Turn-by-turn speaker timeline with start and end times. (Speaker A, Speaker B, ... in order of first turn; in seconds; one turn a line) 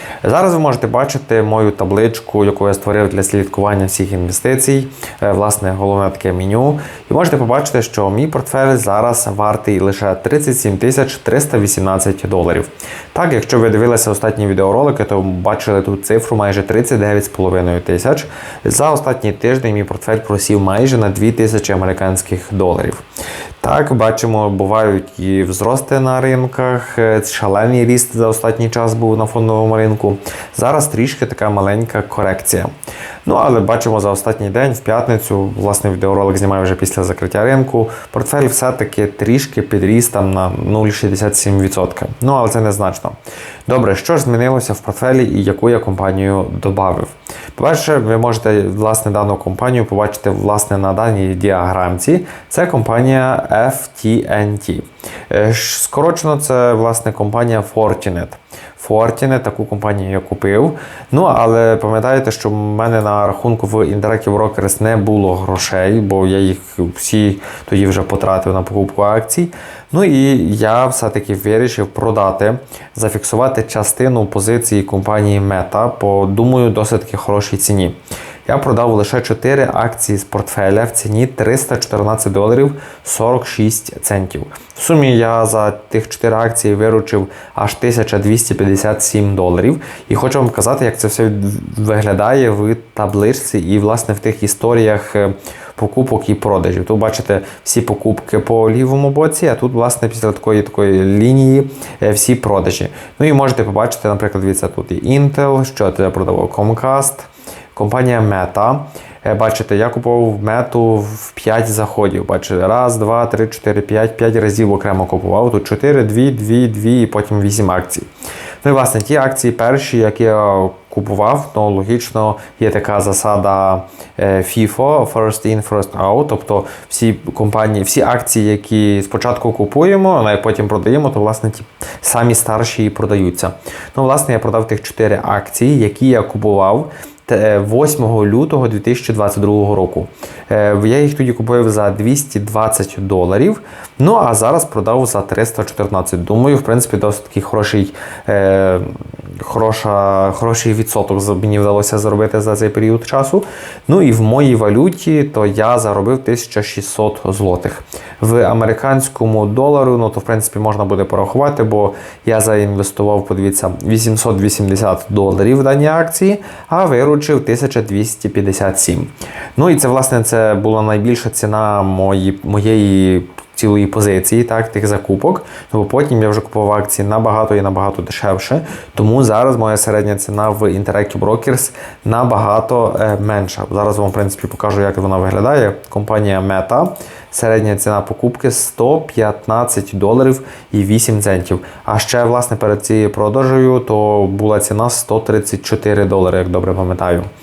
Speaker A: 0.2-23.0
Speaker A: 23.6-32.7
Speaker A: 33.2-43.2
Speaker A: 43.7-118.1
Speaker A: 118.6-197.3